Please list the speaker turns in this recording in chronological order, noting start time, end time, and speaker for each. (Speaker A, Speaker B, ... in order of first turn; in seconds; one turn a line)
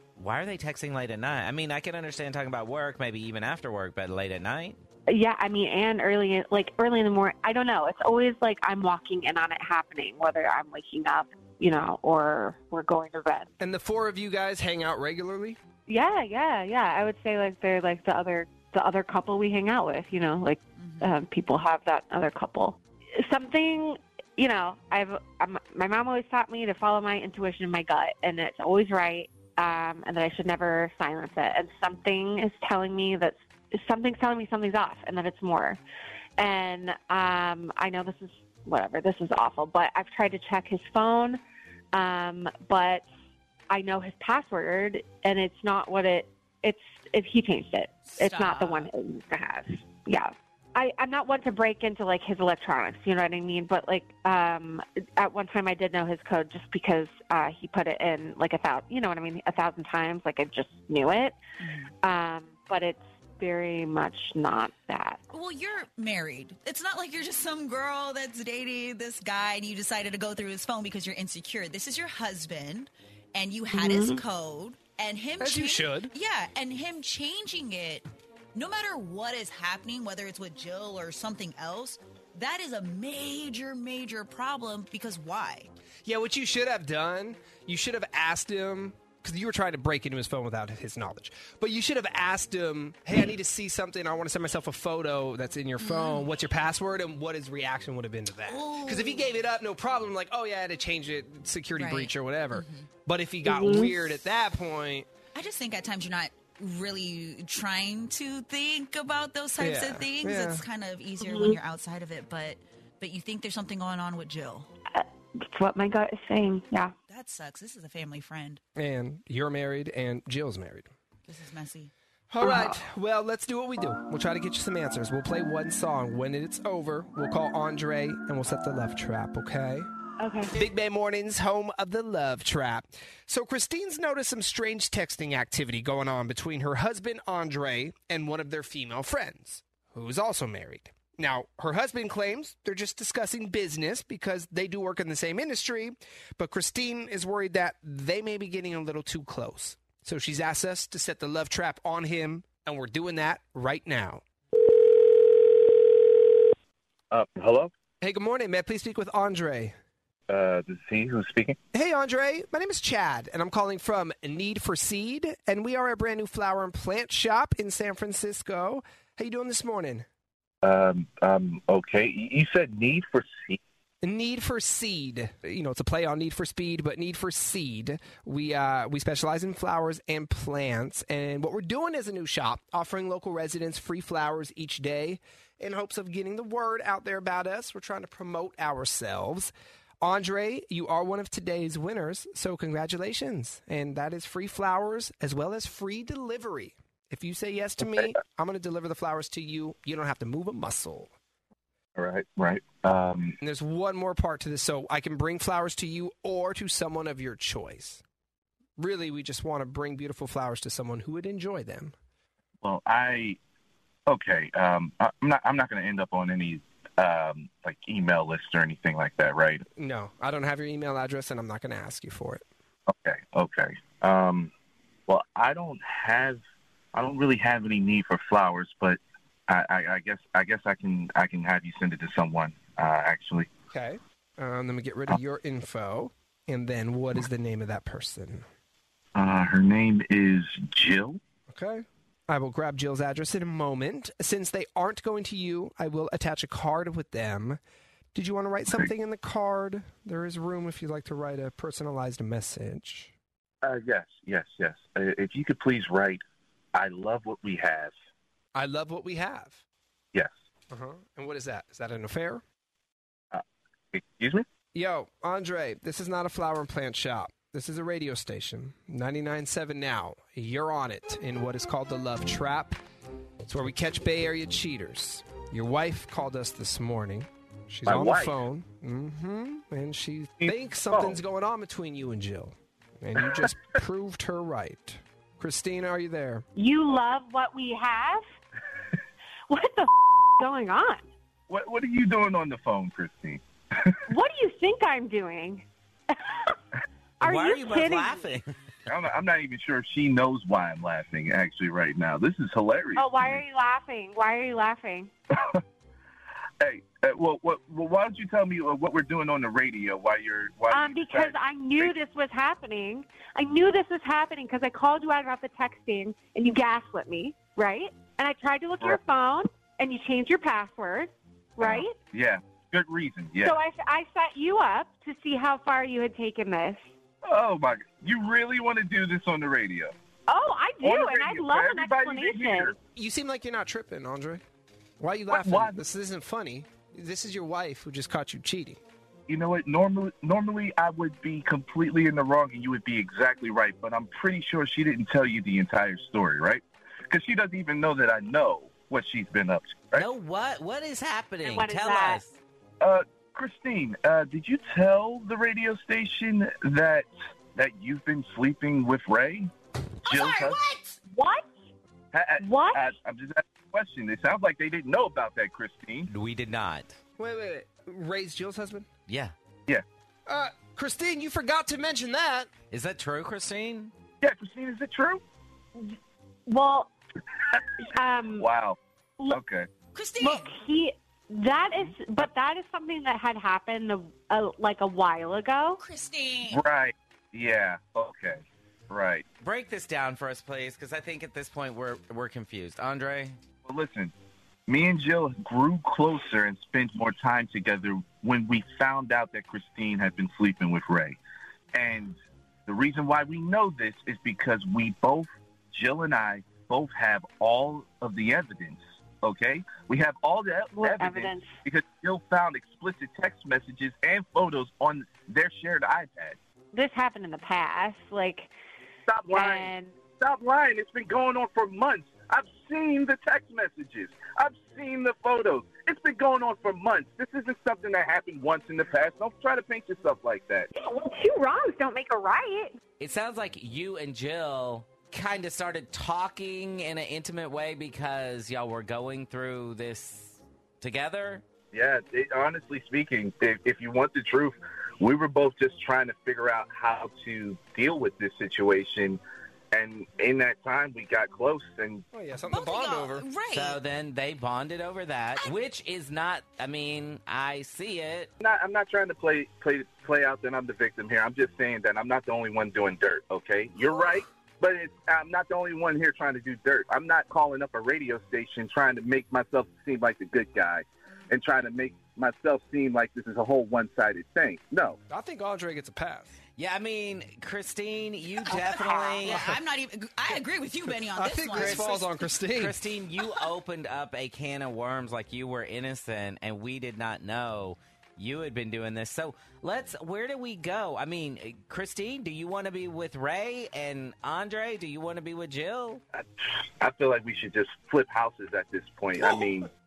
Speaker A: 0.2-4.8
Speaker B: 5.1-13.5
Speaker C: 13.6-15.6
Speaker B: 15.9-35.8
Speaker D: 20.8-21.1
Speaker B: 36.4-41.4
Speaker B: 41.9-43.0
Speaker B: 43.7-61.4
Speaker D: 48.1-48.9
Speaker D: 61.6-61.9
Speaker B: 62.0-65.2
Speaker D: 65.3-85.7
Speaker B: 73.7-74.2
Speaker C: 75.4-76.1
Speaker C: 86.0-105.1
Speaker D: 95.8-96.3
Speaker D: 98.5-99.3
Speaker D: 101.8-102.9
Speaker B: 103.5-103.9
Speaker D: 105.3-114.7
Speaker C: 109.6-110.7
Speaker B: 111.2-111.6
Speaker B: 114.9-116.9
Speaker D: 117.1-118.6
Speaker C: 118.8-120.9
Speaker D: 121.3-121.9
Speaker C: 122.3-129.9
Speaker B: 130.2-130.5
Speaker C: 130.5-154.2
Speaker E: 157.1-157.7
Speaker C: 158.0-159.8
Speaker E: 160.3-161.6
Speaker C: 161.7-170.1
Speaker E: 170.6-173.6
Speaker C: 174.0-201.1
Speaker E: 202.0-203.4
Speaker C: 203.4-208.0
Speaker C: 208.8-211.9
Speaker E: 212.6-213.4
Speaker E: 214.1-219.7
Speaker C: 219.8-222.4
Speaker E: 222.9-224.5
Speaker E: 225.1-226.4
Speaker E: 226.9-233.5
Speaker C: 233.7-238.5
Speaker E: 239.2-241.2
Speaker C: 241.5-247.6
Speaker C: 248.2-253.1
Speaker E: 253.6-256.2
Speaker E: 256.7-257.9
Speaker C: 258.6-259.6
Speaker C: 260.7-262.4
Speaker E: 263.3-264.5
Speaker C: 264.7-272.8
Speaker C: 273.4-286.4
Speaker E: 277.9-278.4
Speaker E: 280.4-281.2
Speaker B: 286.6-288.2
Speaker B: 289.5-291.0
Speaker E: 291.5-294.0
Speaker B: 294.1-296.2
Speaker B: 297.2-298.2
Speaker A: 297.2-298.5
Speaker E: 298.9-303.4
Speaker B: 303.0-305.1
Speaker E: 305.4-305.6
Speaker E: 306.6-311.9
Speaker B: 310.7-322.0
Speaker E: 321.6-323.6
Speaker B: 323.4-326.9
Speaker E: 327.2-329.9
Speaker B: 330.3-332.7
Speaker E: 330.8-332.8
Speaker C: 332.9-334.4
Speaker C: 335.0-338.8
Speaker E: 335.3-335.8
Speaker E: 339.3-350.1
Speaker A: 349.9-352.4
Speaker B: 351.4-352.2
Speaker E: 352.8-359.5
Speaker E: 360.1-360.6
Speaker D: 360.1-361.0
Speaker B: 361.1-361.5
Speaker E: 362.1-366.1
Speaker B: 362.4-362.9
Speaker A: 366.1-367.0
Speaker C: 367.2-368.9
Speaker A: 369.1-369.3
Speaker C: 370.3-372.5
Speaker A: 372.7-373.9
Speaker E: 374.2-375.2
Speaker B: 375.8-376.9
Speaker B: 377.9-378.5
Speaker E: 378.4-378.8
Speaker E: 379.3-379.7
Speaker D: 379.9-380.5
Speaker B: 380.2-385.8
Speaker D: 385.8-386.6
Speaker E: 386.5-389.2
Speaker A: 389.4-393.4
Speaker E: 393.6-394.1
Speaker E: 394.7-401.2
Speaker E: 401.7-416.4
Speaker B: 410.8-411.6
Speaker B: 416.7-418.5
Speaker E: 419.1-430.7
Speaker B: 419.3-419.9
Speaker B: 430.8-432.8
Speaker A: 433.0-441.4
Speaker E: 441.7-449.2
Speaker E: 449.7-452.1
Speaker C: 452.1-453.2
Speaker D: 452.5-453.8
Speaker A: 453.5-458.3
Speaker E: 458.4-475.0
Speaker C: 475.1-476.3
Speaker A: 476.6-479.5
Speaker D: 478.5-482.0
Speaker C: 481.1-482.8
Speaker A: 481.5-482.0
Speaker A: 482.5-496.0
Speaker E: 496.1-499.7